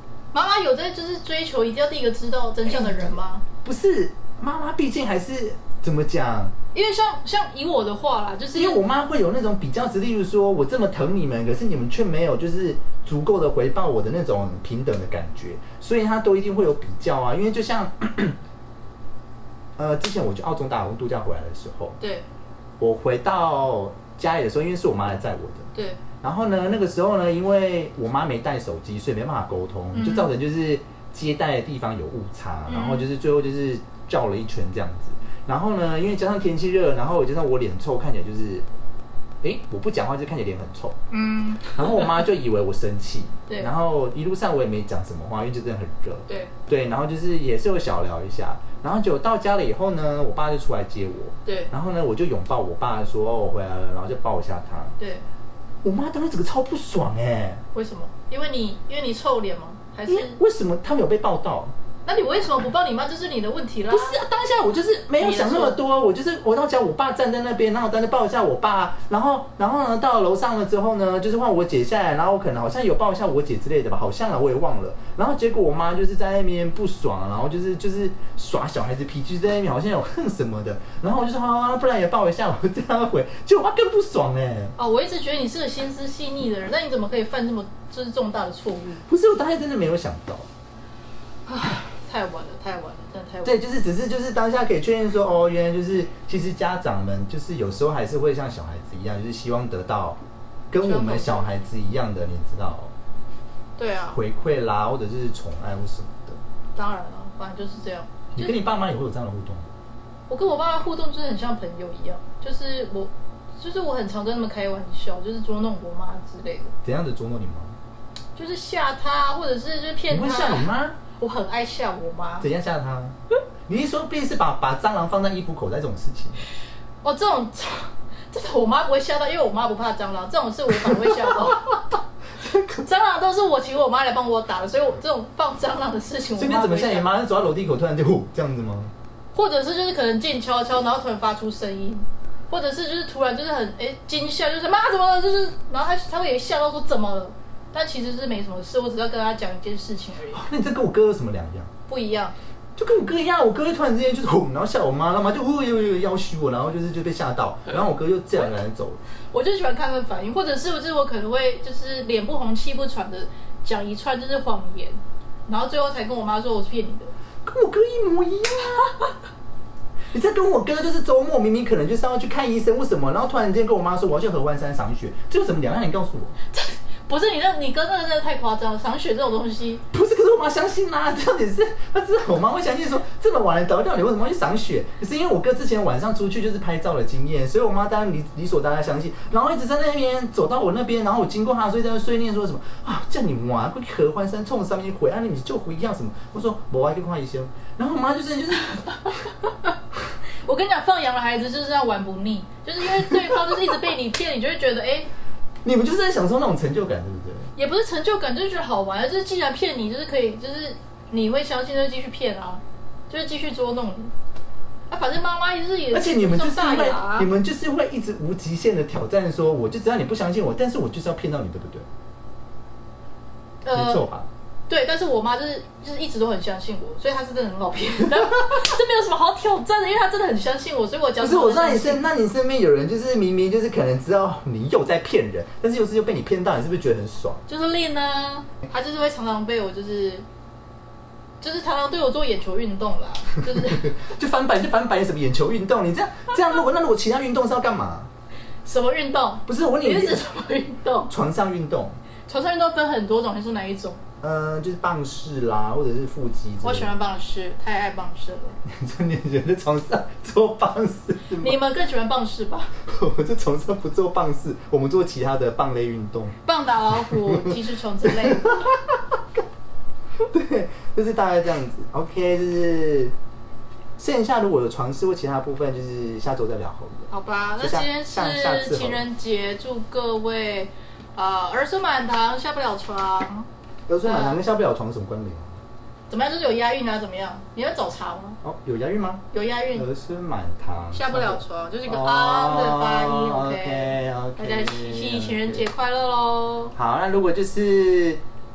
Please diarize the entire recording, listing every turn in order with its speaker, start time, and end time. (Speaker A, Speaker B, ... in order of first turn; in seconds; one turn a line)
Speaker A: 0.3-3.4
Speaker B: 2.6-6.5
Speaker A: 6.7-8.8
Speaker B: 8.6-18.4
Speaker B: 19.8-22.0
Speaker A: 22.0-22.2
Speaker B: 22.8-25.7
Speaker A: 25.7-26.0
Speaker B: 26.2-38.7
Speaker A: 29.9-30.3
Speaker A: 32.7-33.1
Speaker B: 39.4-41.0
Speaker A: 41.1-42.1
Speaker B: 41.8-55.0
Speaker A: 46.3-46.5
Speaker A: 51.5-51.7
Speaker A: 55.0-55.2
Speaker B: 55.8-57.6
Speaker A: 57.7-60.4
Speaker B: 60.1-61.7
Speaker A: 62.1-64.2
Speaker B: 63.9-84.8
Speaker A: 65.2-65.8
Speaker A: 84.8-89.0
Speaker B: 89.1-90.5
Speaker A: 91.5-93.6
Speaker B: 93.5-100.2
Speaker B: 100.7-102.9
Speaker A: 100.8-101.5
Speaker A: 103.8-104.2
Speaker B: 104.1-106.4
Speaker A: 106.8-108.5
Speaker B: 108.3-109.7
Speaker A: 110.3-116.7
Speaker B: 116.8-117.8
Speaker A: 118.4-122.5
Speaker B: 120.1-121.0
Speaker B: 122.4-123.2
Speaker B: 123.7-126.5
Speaker A: 127.0-131.9
Speaker B: 130.8-131.7
Speaker B: 132.4-132.9
Speaker A: 132.8-137.1
Speaker B: 136.4-138.9
Speaker A: 139.3-150.5
Speaker B: 150.3-151.7
Speaker A: 151.9-152.3
Speaker B: 152.8-159.0
Speaker A: 159.3-167.1
Speaker B: 167.4-168.9
Speaker B: 170.1-176.4
Speaker A: 176.5-179.8
Speaker B: 179.9-198.9
Speaker A: 198.9-199.7
Speaker A: 200.4-205.1
Speaker B: 205.6-207.5
Speaker A: 207.6-214.1
Speaker A: 214.9-217.3
Speaker B: 215.9-221.9
Speaker A: 223.6-224.1
Speaker B: 223.7-224.3
Speaker A: 224.7-232.0
Speaker B: 231.2-237.4
Speaker A: 237.5-240.3
Speaker A: 241.4-244.0
Speaker B: 243.6-248.1
Speaker A: 248.7-251.1
Speaker B: 249.5-250.2
Speaker B: 251.1-252.0
Speaker A: 252.3-254.0
Speaker B: 254.2-256.9
Speaker A: 256.6-258.6
Speaker B: 258.7-261.6
Speaker A: 261.4-262.7
Speaker B: 262.8-266.4
Speaker A: 266.5-268.7
Speaker B: 266.9-269.4
Speaker B: 270.2-273.1
Speaker B: 274.0-279.0
Speaker A: 277.1-283.5
Speaker B: 283.9-285.6
Speaker A: 284.0-284.4
Speaker A: 286.1-288.4
Speaker B: 288.4-295.6
Speaker A: 289.3-289.9
Speaker A: 290.9-296.8
Speaker B: 296.8-298.2